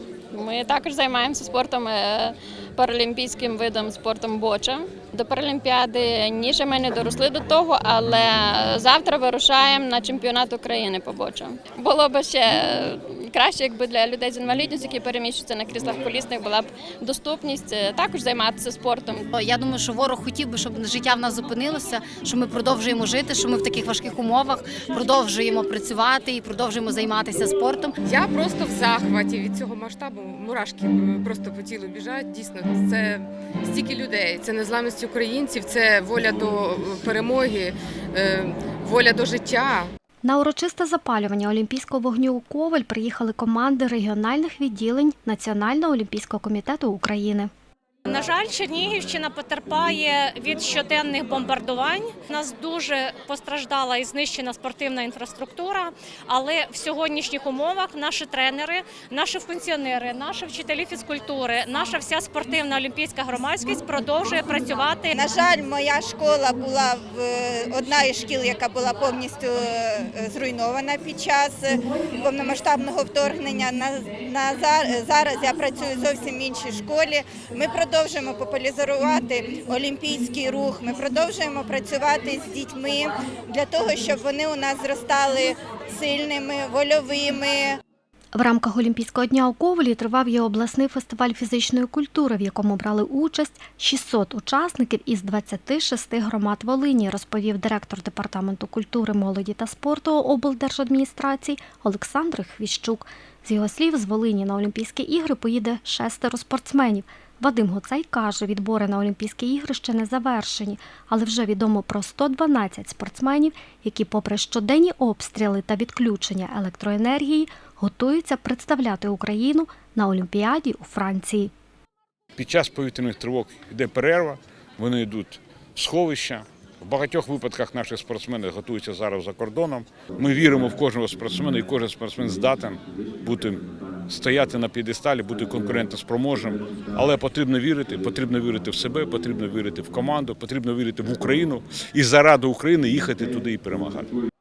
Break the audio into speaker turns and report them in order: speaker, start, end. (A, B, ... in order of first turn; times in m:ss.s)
0:00.3-0:19.3 A
0:19.3-0:28.0 B
0:28.0-0:39.9 C
0:40.2-0:47.5 D
0:48.1-1:05.2 E
1:05.1-1:27.8 F
1:28.3-2:01.5 D
2:02.4-2:24.1 G